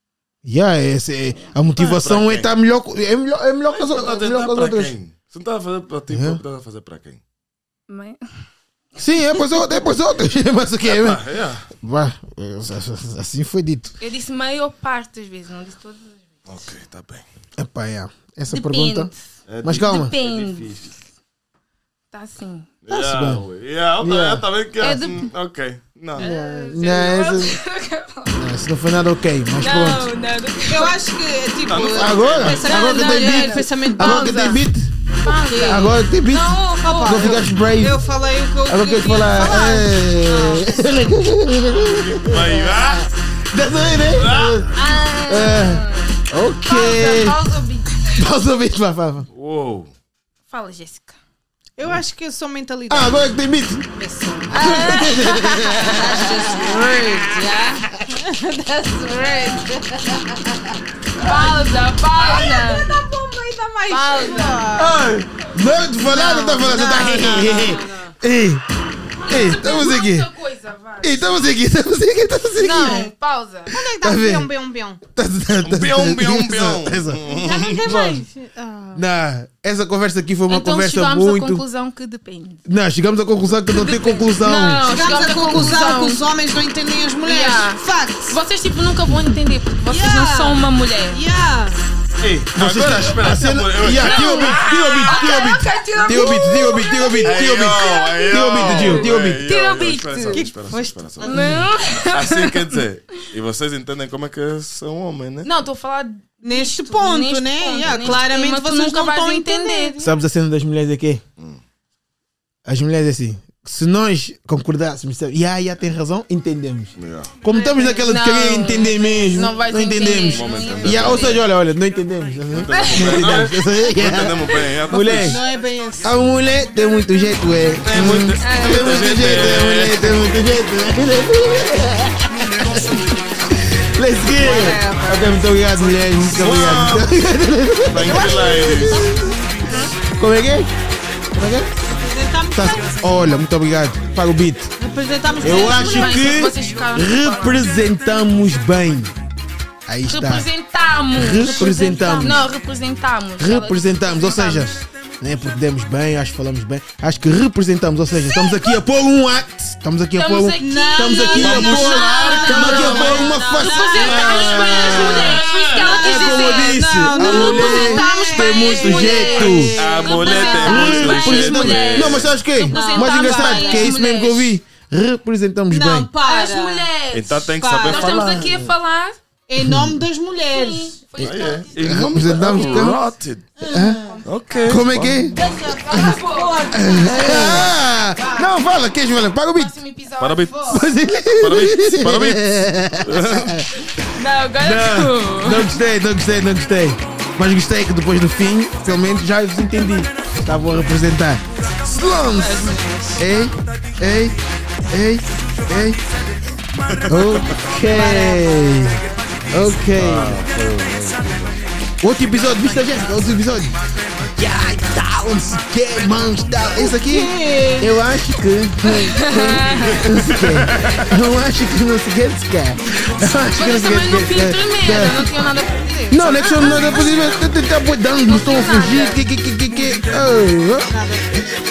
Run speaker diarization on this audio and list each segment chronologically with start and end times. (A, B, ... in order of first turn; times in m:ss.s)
0:00.4-0:04.9 A
0:01.8-0:02.5 B
0:03.7-0:07.2 B
0:06.1-0:06.4 A
0:07.9-0:08.2 C
0:09.0-0:14.0 A
0:10.8-0:11.7 B
0:14.0-0:16.3 C
0:16.5-0:17.2 B
0:17.6-0:19.1 A
0:18.5-0:19.2 C
0:19.5-0:20.9 B
0:19.6-0:20.1 A
0:19.8-0:20.9 C
0:22.1-0:22.7 C
0:22.8-0:26.3 B
0:22.9-0:23.5 A
0:24.0-0:24.4 A
0:24.8-0:25.3 C
0:26.2-0:27.6 A
0:26.2-0:28.4 C
0:28.3-0:30.1 A
0:29.6-0:31.0 C
0:30.7-0:34.6 D
0:31.6-0:32.8 B
0:31.9-0:34.9 A
0:32.6-0:34.6 C
0:35.2-0:37.4 C
0:35.2-0:36.0 D
0:35.6-0:38.0 A
0:36.8-0:40.9 D
0:38.7-0:47.5 A
0:41.9-0:43.0 B
0:44.0-0:44.7 B
0:44.7-0:46.1 C
0:46.6-0:48.3 C
0:48.1-0:49.3 A
0:49.3-0:49.9 B
0:50.5-0:51.2 C
0:51.8-0:53.4 D
0:52.9-0:53.8 A
0:53.9-1:05.2 D
0:54.5-0:57.2 C
0:54.5-0:57.0 A
0:59.1-0:59.7 C
1:01.2-1:03.0 C
1:03.9-1:04.8 C
1:04.8-1:08.6 A
1:06.1-1:08.2 D
1:09.2-1:11.6 C
1:09.3-1:10.3 A
1:11.0-1:13.1 A
1:12.5-1:13.8 C
1:13.7-1:15.0 D
1:14.0-1:14.5 A
1:15.1-1:17.2 A
1:15.6-1:18.1 B
1:17.3-1:19.0 D
1:17.8-1:18.2 A
1:19.0-1:21.6 A
1:20.5-1:22.6 C
1:22.7-1:24.9 A
1:23.7-1:26.2 C
1:24.5-1:28.4 D
1:27.2-1:31.2 C
1:29.9-1:31.8 D
1:32.2-1:34.6 B
1:32.6-1:39.4 A
1:33.9-1:40.5 C
1:36.0-1:36.3 D
1:37.2-1:45.5 B
1:40.3-1:41.6 D
1:41.2-1:42.8 C
1:45.4-1:50.0 C
1:46.4-1:50.2 D
1:50.0-1:51.2 A
1:52.7-2:05.4 A
1:57.0-1:57.3 B
1:57.5-2:01.4 C
2:00.2-2:01.4 B
2:02.5-2:05.4 B
2:02.7-2:03.2 C
2:05.1-2:06.3 D
2:06.0-2:19.3 A
2:07.8-2:10.2 B
2:08.4-2:09.1 C
2:14.3-2:15.4 D
2:16.3-2:17.1 B
2:17.9-2:19.1 B
2:18.0-2:19.9 D
2:20.0-2:20.7 A
2:21.3-2:21.7 A
2:22.0-2:23.3 D
2:22.5-2:24.7 A
2:24.8-2:26.5 D
2:25.4-2:29.1 A
2:25.4-2:27.7 C
2:29.9-2:30.5 A
2:30.1-2:34.8 C
2:31.2-2:32.4 A
2:33.4-2:49.8 A
2:38.3-2:38.7 C
2:40.2-2:54.5 C
2:40.6-2:50.8 D
2:41.4-2:43.3 B
2:44.0-2:46.0 B
2:49.4-2:52.4 B
2:50.6-2:56.1 A
2:52.6-2:53.9 D
2:55.7-2:56.9 D
2:56.2-2:59.2 C
2:57.1-2:58.7 B
2:57.6-2:58.5 D
2:59.5-3:01.3 D
2:59.6-3:00.0 A
3:00.5-3:03.0 C
3:01.2-3:03.5 B
3:01.8-3:03.0 A
3:03.6-3:04.2 D
3:03.7-3:04.1 A
3:04.0-3:07.7 C
3:04.2-3:05.3 B
3:04.7-3:05.4 A
3:05.4-3:08.4 D
3:06.7-3:09.8 A
3:09.5-3:10.9 C
3:10.2-3:10.5 B
3:10.7-3:13.9 A
3:11.4-3:13.7 B
3:14.2-3:15.8 C
3:14.6-3:24.4 A
3:22.3-3:23.3 C
3:24.9-3:26.0 A
3:27.0-3:30.4 A
3:27.2-3:27.6 B
3:27.9-3:28.5 D
3:29.9-3:31.6 B
3:32.0-3:33.7 A
3:34.3-3:45.3 A
3:36.7-3:37.9 D
3:38.9-3:40.1 C
3:40.2-3:41.1 B
3:43.5-3:47.4 C
3:46.1-3:50.9 A
3:48.2-3:49.3 C
3:50.8-3:51.4 D